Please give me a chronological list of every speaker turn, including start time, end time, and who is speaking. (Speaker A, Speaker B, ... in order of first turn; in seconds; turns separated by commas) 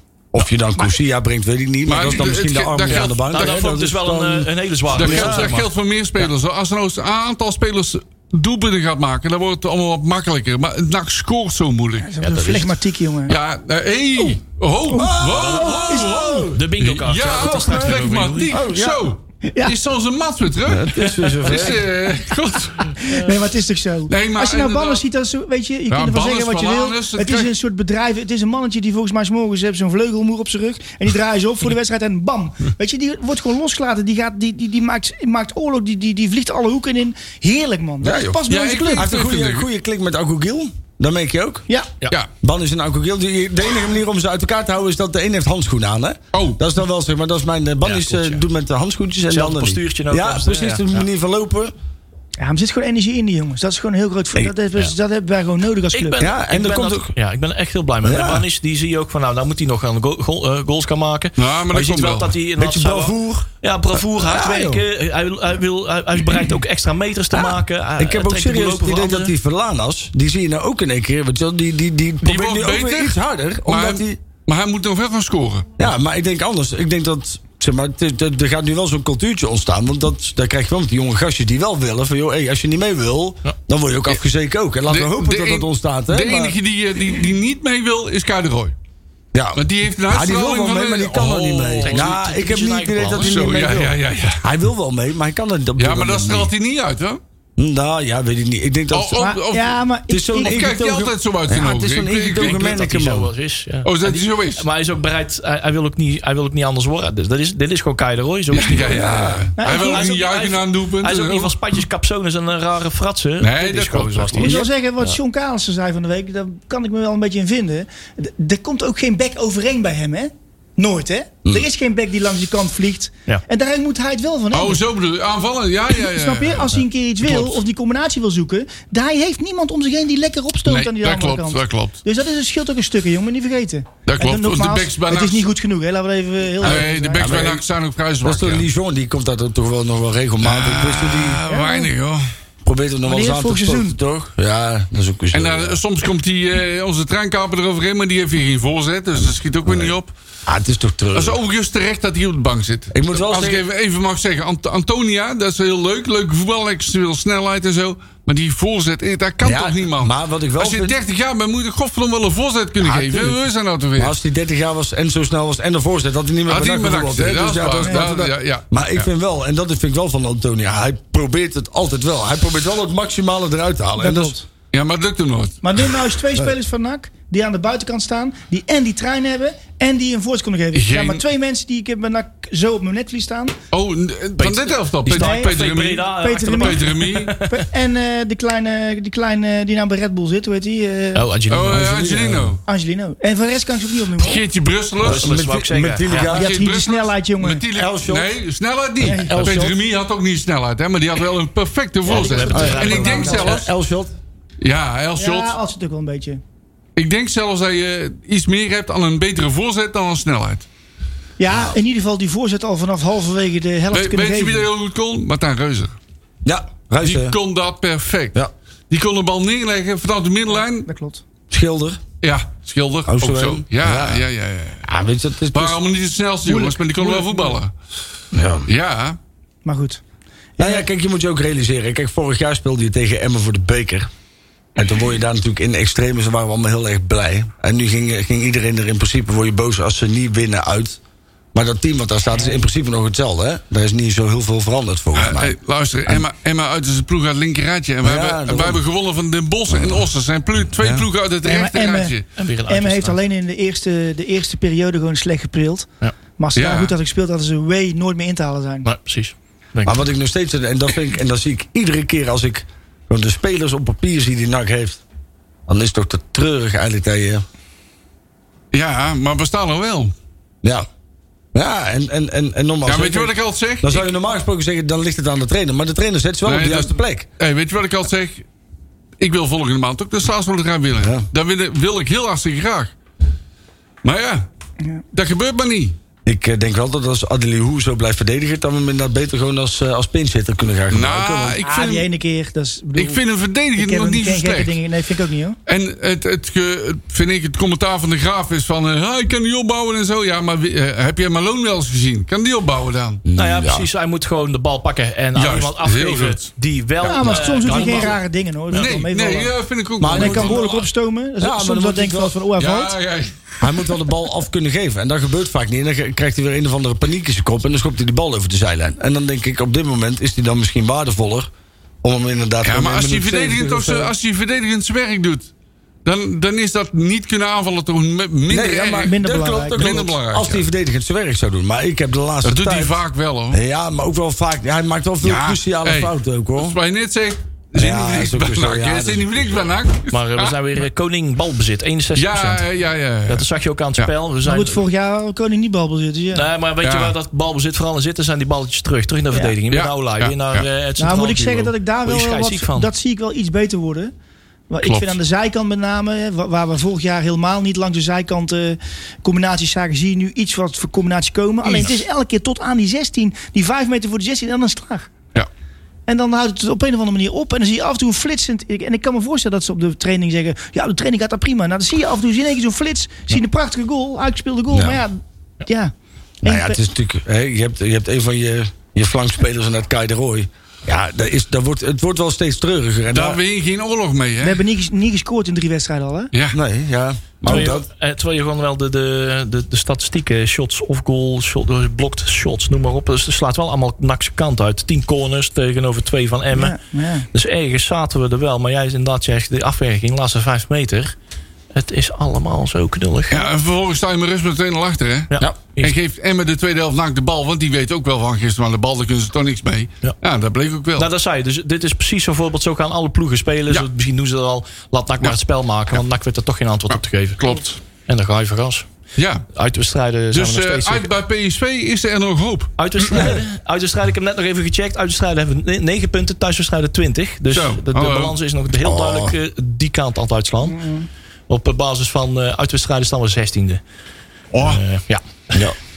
Speaker A: 0.3-5.6, Speaker B: 1.9-3.6, Speaker C: 2.9-5.7, Speaker B: 4.9-12.1, Speaker D: 12.1-13.4, Speaker C: 12.2-12.8, Speaker B: 13.3-23.2, Speaker D: 14.9-15.1, Speaker A: 14.9-16.6, Speaker D: 15.9-16.5, Speaker C: 16.5-18.6, Speaker A: 18.5-19.1, Speaker A: 20.7-21.9, Speaker D: 23.0-39.1, Speaker B: 24.1-25.0, Speaker B: 25.9-27.5, Speaker A: 38.0-41.7, Speaker B: 38.5-39.7, Speaker A: 42.4-51.7, Speaker B: 46.3-46.6, Speaker C: 47.8-48.4, Speaker C: 49.3-51.0, Speaker D: 52.4-56.2, Speaker C: 55.9-69.3, Speaker A: 56.2-57.1, Speaker A: 58.0-58.5, Speaker B: 61.4-62.3, Speaker A: 62.6-64.8, Speaker A: 68.0-74.2, Speaker B: 72.2-75.7, Speaker A: 75.8-86.5, Speaker B: 84.9-88.8, Speaker A: 89.3-96.5, Speaker B: 89.6-92.1, Speaker C: 91.8-93.7, Speaker B: 93.1-94.4, Speaker B: 95.8-97.2, Speaker A: 97.6-99.3, Speaker B: 98.9-102.7, Speaker D: 99.2-100.6, Speaker A: 100.1-103.3, Speaker C: 102.3-109.1, Speaker B: 103.8-104.6, Speaker B: 108.5-111.8, Speaker A: 108.8-109.5, Speaker D: 109.6-110.2, Speaker C: 109.7-115.2, Speaker B: 113.4-114.6, Speaker D: 114.4-124.8, Speaker B: 124.5-127.6, Speaker D: 125.9-137.6, Speaker B: 130.7-132.0, Speaker B: 134.1-135.5, Speaker B: 136.6-138.7, Speaker A: 136.6-137.6, Speaker A: 138.2-141.4, Speaker B: 140.4-142.3, Speaker D: 141.5-141.9, Speaker A: 142.6-145.8, Speaker D: 143.1-144.0, Speaker B: 145.3-150.1, Speaker A: 149.2-149.9, Speaker A: 150.5-151.4, Speaker B: 151.1-164.1, Speaker A: 152.9-153.6, Speaker A: 159.4-161.0, Speaker A: 162.8-163.4, Speaker A: 164.0-174.4, Speaker B: 166.5-169.1, Speaker D: 174.0-174.5, Speaker B: 174.7-175.9, Speaker D: 175.6-183.6, Speaker B: 180.7-181.2, Speaker B: 183.7-187.3, Speaker C: 184.4-187.6, Speaker D: 185.1-185.6, Speaker D: 186.2-191.2, Speaker C: 191.1-192.1, Speaker B: 191.5-192.6, Speaker A: 191.7-192.5, Speaker D: 192.7-194.4, Speaker B: 194.2-195.4, Speaker A: 195.0-196.5, Speaker C: 195.0-196.3, Speaker B: 196.1-203.7, Speaker D: 196.3-197.7, Speaker A: 197.7-198.3, Speaker A: 199.0-199.7, Speaker D: 199.0-199.6, Speaker C: 202.1-203.6, Speaker D: 202.4-202.7, Speaker A: 202.4-204.1, Speaker B: 204.6-205.6, Speaker D: 205.2-206.4, Speaker B: 207.0-210.7, Speaker D: 211.4-214.7, Speaker A: 211.5-211.8, Speaker B: 213.9-216.0, Speaker A: 216.4-217.4, Speaker B: 217.0-218.4, Speaker B: 218.9-220.9, Speaker D: 220.5-221.2, Speaker A: 221.5-222.0, Speaker B: 222.2-224.9, Speaker A: 223.1-224.3, Speaker A: 224.8-225.8, Speaker B: 225.5-227.7, Speaker D: 226.4-227.6, Speaker A: 228.3-228.7, Speaker B: 228.7-229.2, Speaker D: 229.7-230.0, Speaker D: 230.6-230.8, Speaker A: 230.6-234.1, Speaker A: 234.8-241.0, Speaker A: 241.5-245.6, Speaker B: 245.1-252.3, Speaker A: 248.0-248.8, Speaker A: 249.7-250.1, Speaker A: 250.8-251.1, Speaker D: 251.4-258.9, Speaker C: 252.4-253.2, Speaker B: 256.6-256.9, Speaker C: 258.8-260.1, Speaker A: 259.9-265.0, Speaker A: 265.7-267.4, Speaker B: 268.7-270.1, Speaker A: 271.5-277.3, Speaker B: 272.9-274.1, Speaker B: 276.4-278.5, Speaker B: 279.2-282.9, Speaker A: 281.0-281.3, Speaker B: 284.0-284.4, Speaker B: 285.1-286.0, Speaker A: 286.3-291.6, Speaker B: 290.9-292.1, Speaker D: 291.6-293.2, Speaker B: 293.0-294.8, Speaker D: 293.8-295.6, Speaker B: 295.7-303.2, Speaker A: 303.2-303.9, Speaker C: 303.4-308.2, Speaker B: 305.4-306.5, Speaker D: 307.0-309.5, Speaker B: 307.2-308.2, Speaker B: 308.7-310.9, Speaker A: 310.0-310.8, Speaker D: 310.1-312.9, Speaker A: 311.4-312.4, Speaker B: 312.6-313.6, Speaker A: 313.6-321.5, Speaker A: 322.0-324.1, Speaker B: 322.6-325.5, Speaker B: 326.1-329.2, Speaker A: 328.5-333.0, Speaker D: 329.1-330.0, Speaker B: 329.7-330.7, Speaker B: 332.4-333.6, Speaker A: 333.5-336.8, Speaker B: 335.2-340.6, Speaker A: 337.8-339.6, Speaker C: 340.1-342.6, Speaker B: 342.2-343.5, Speaker C: 343.3-344.8, Speaker D: 344.4-346.5, Speaker C: 346.3-352.9, Speaker B: 346.8-347.1, Speaker B: 349.7-350.7, Speaker D: 351.0-354.1, Speaker D: 354.7-365.1, Speaker B: 354.8-355.2, Speaker D: 366.1-375.9, Speaker A: 374.7-375.0, Speaker D: 376.4-376.8, Speaker A: 376.4-383.4, Speaker B: 383.1-384.6, Speaker D: 384.4-386.3, Speaker B: 386.3-386.6, Speaker A: 386.5-387.9, Speaker C: 387.4-396.8, Speaker D: 396.5-397.3, Speaker C: 397.3-401.1, Speaker C: 401.7-403.4, Speaker B: 403.3-411.1, Speaker C: 405.3-405.9, Speaker C: 411.0-417.4, Speaker B: 416.9-417.8, Speaker C: 418.1-418.9, Speaker B: 419.2-419.5, Speaker C: 419.5-421.1, Speaker B: 420.3-423.4, Speaker C: 422.8-430.8, Speaker A: 423.1-423.4, Speaker B: 427.5-428.4, Speaker A: 428.8-429.4, Speaker D: 430.6-431.1, Speaker C: 431.5-433.8, Speaker B: 434.5-434.8, Speaker C: 434.6-435.6